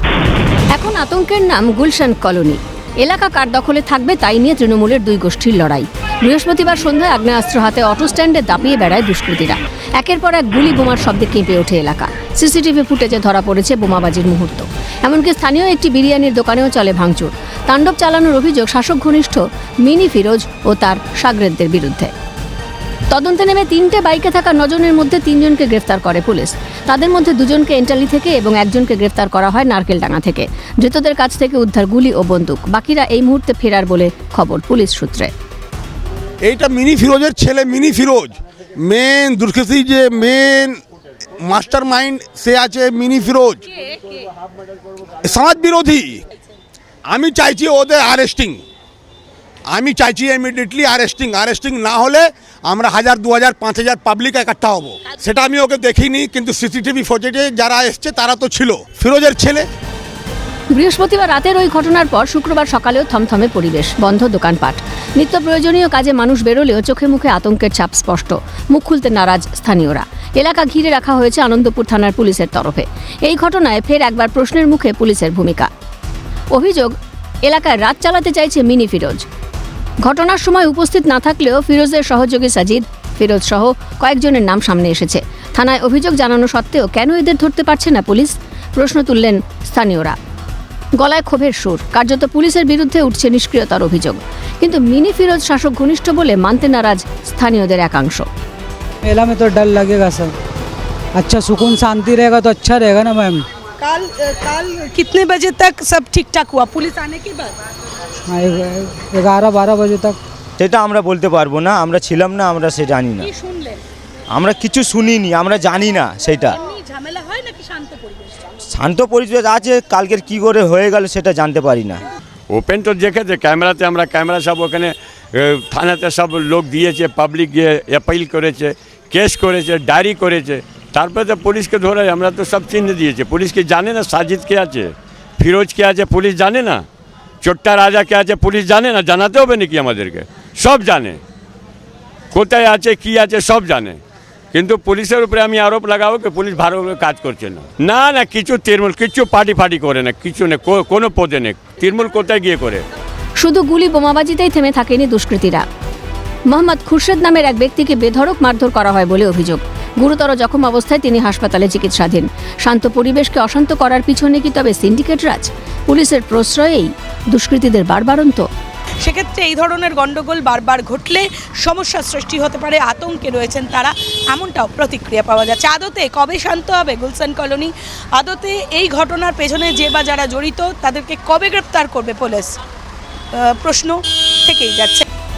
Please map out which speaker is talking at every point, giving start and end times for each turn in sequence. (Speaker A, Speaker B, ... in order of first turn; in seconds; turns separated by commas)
Speaker A: 0.7-22.1, Speaker A: 23.1-35.3, Speaker B: 36.4-40.8, Speaker B: 41.4-43.6, Speaker B: 45.2-46.2, Speaker B: 47.1-48.6, Speaker B: 49.7-59.7, Speaker A: 60.7-75.7, Speaker A: 76.5-79.2, Speaker A: 80.0-90.2, Speaker A: 91.0-98.3, Speaker C: 99.0-100.3, Speaker C: 101.2-103.5, Speaker D: 103.8-107.6, Speaker C: 108.3-110.2, Speaker E: 110.6-113.3, Speaker D: 113.2-113.8, Speaker E: 114.3-116.6, Speaker D: 116.5-118.4, Speaker E: 118.7-122.0, Speaker F: 122.5-136.8, Speaker F: 137.4-141.2, Speaker F: 142.3-144.0, Speaker F: 144.5-152.8, Speaker A: 153.4-155.7, Speaker A: 156.5-168.5, Speaker D: 169.0-182.6, Speaker D: 183.3-185.1